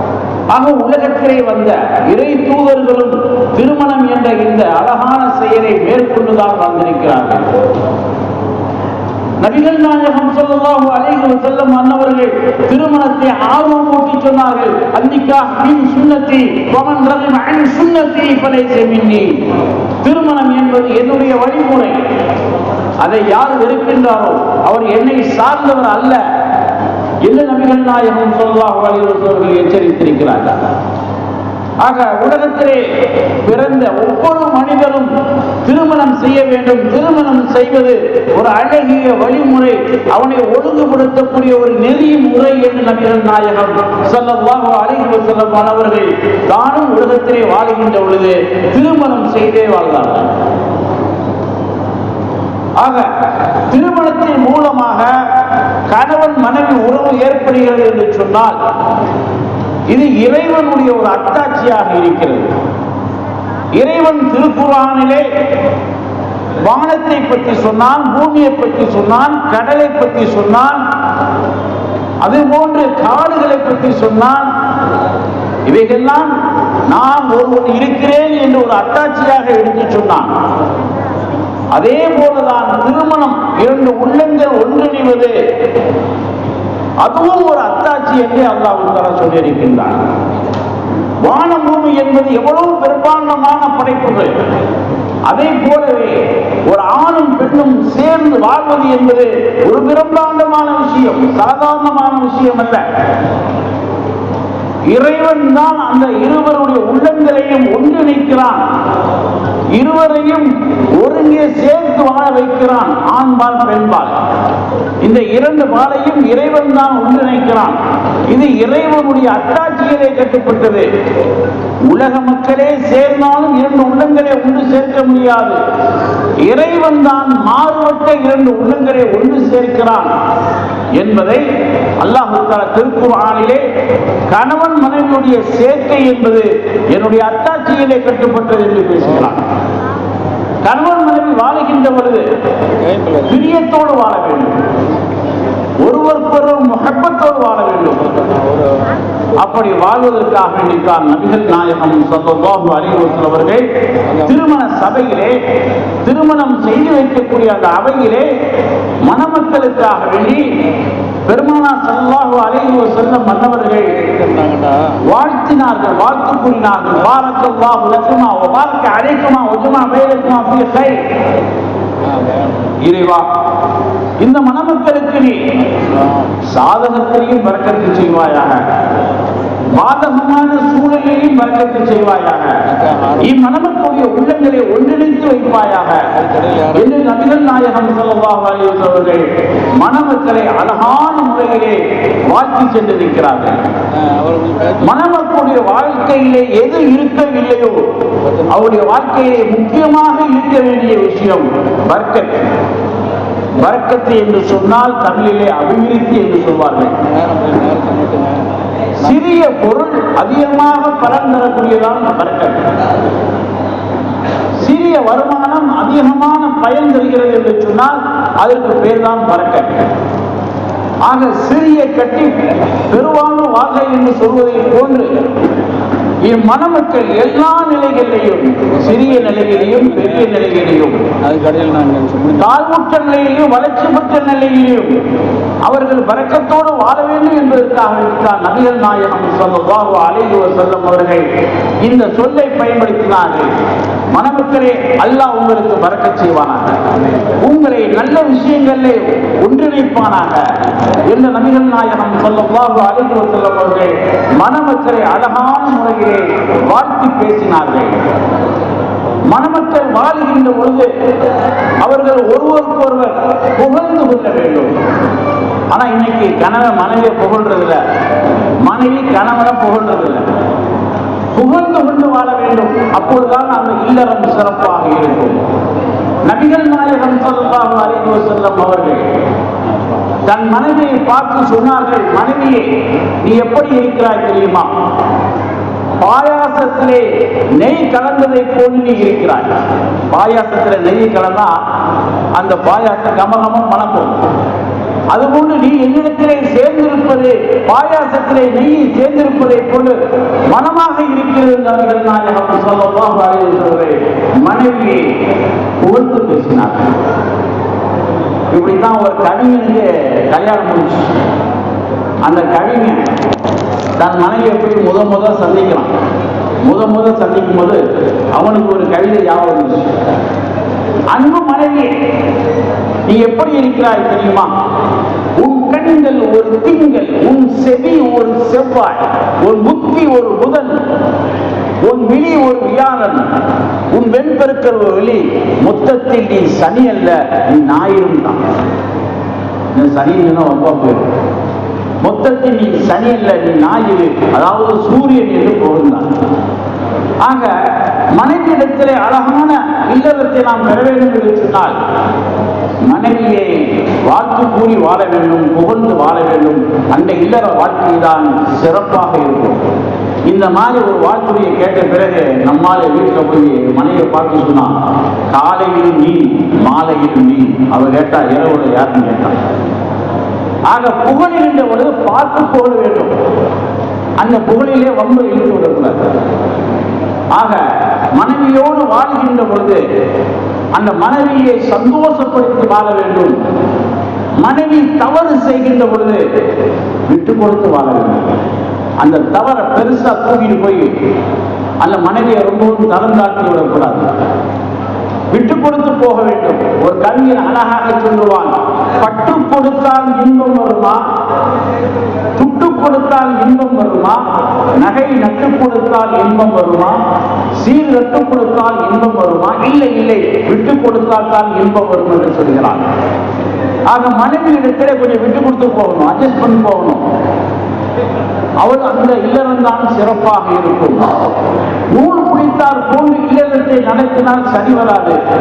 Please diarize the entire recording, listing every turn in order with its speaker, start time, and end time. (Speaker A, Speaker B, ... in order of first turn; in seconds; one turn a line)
Speaker A: 0.5-7.5
Speaker A: 9.4-19.4
Speaker A: 20.0-22.0
Speaker A: 23.0-26.2
Speaker A: 27.2-30.6
Speaker A: 31.8-32.9
Speaker A: 33.4-35.1
Speaker A: 35.6-50.3
Speaker A: 52.8-53.1
Speaker A: 53.7-55.1
Speaker A: 55.9-58.6
Speaker A: 59.9-62.5
Speaker A: 63.8-65.3
Speaker A: 66.6-70.8
Speaker A: 72.2-74.5
Speaker A: 75.7-76.3
Speaker A: 76.9-80.3
Speaker A: 81.7-85.3
Speaker A: 87.0-90.0
Speaker A: 91.2-94.3
Speaker A: 95.3-102.8
Speaker A: 104.9-108.6
Speaker A: 109.8-114.2
Speaker A: 115.0-117.8
Speaker A: 118.3-120.9
Speaker A: 121.9-125.6
Speaker A: 126.4-130.1
Speaker A: 131.0-131.5
Speaker A: 132.0-133.6
Speaker A: 134.3-139.4
Speaker A: 140.7-142.3
Speaker B: 142.8-143.3
Speaker A: 143.2-144.6
Speaker A: 145.8-148.1
Speaker B: 148.1-149.0
Speaker A: 149.4-153.7
Speaker A: 154.2-155.4
Speaker A: 156.0-158.3
Speaker A: 159.0-160.6
Speaker A: 161.3-163.9
Speaker B: 163.9-165.0
Speaker A: 165.1-171.0
Speaker B: 172.1-172.8
Speaker A: 172.8-173.3
Speaker A: 174.2-175.5
Speaker B: 175.7-176.3
Speaker A: 176.4-178.7
Speaker A: 179.7-182.6
Speaker B: 182.7-183.2
Speaker A: 183.2-186.2
Speaker B: 186.2-186.8
Speaker A: 186.7-189.2
Speaker A: 189.8-193.6
Speaker B: 194.0-194.8
Speaker A: 194.8-197.8
Speaker A: 198.5-202.5
Speaker A: 203.6-207.0
Speaker B: 207.0-208.5
Speaker A: 209.0-212.6
Speaker A: 214.6-219.8
Speaker A: 221.0-225.3
Speaker A: 226.2-231.1
Speaker B: 231.2-232.4
Speaker A: 232.4-235.0
Speaker A: 235.7-241.2
Speaker A: 241.8-243.5
Speaker A: 244.1-246.8
Speaker A: 247.4-250.4
Speaker A: 251.1-258.0
Speaker A: 259.3-260.9
Speaker A: 261.8-264.7
Speaker A: 265.7-267.8
Speaker A: 268.6-270.3
Speaker A: 271.4-275.4
Speaker A: 276.2-279.0
Speaker A: 280.2-282.7
Speaker A: 283.2-284.7
Speaker A: 286.0-287.1
Speaker A: 287.6-289.6
Speaker A: 290.1-291.5
Speaker A: 292.4-294.2
Speaker A: 295.1-299.9
Speaker A: 300.5-305.1
Speaker A: 305.8-306.9
Speaker A: 308.5-311.1
Speaker A: 312.2-313.0
Speaker A: 314.0-315.9
Speaker A: 316.6-317.8
Speaker A: 318.4-319.9
Speaker A: 321.1-321.9
Speaker A: 323.1-324.5
Speaker A: 325.4-330.8
Speaker A: 331.8-333.3
Speaker A: 333.9-338.4
Speaker A: 339.7-341.1
Speaker A: 342.0-346.1
Speaker A: 347.2-347.6
Speaker A: 348.1-351.8
Speaker A: 352.9-359.6
Speaker A: 360.3-364.7
Speaker A: 365.3-369.4
Speaker A: 370.7-373.1
Speaker A: 374.2-376.1
Speaker A: 377.3-377.6
Speaker A: 378.2-379.9
Speaker A: 380.7-383.4
Speaker A: 384.4-386.2
Speaker A: 387.1-388.4
Speaker A: 389.0-390.9
Speaker A: 391.8-394.1
Speaker A: 395.3-401.0
Speaker A: 402.4-404.2
Speaker A: 404.8-407.0
Speaker A: 407.6-412.9
Speaker A: 413.9-417.0
Speaker A: 418.6-421.2
Speaker A: 421.9-425.2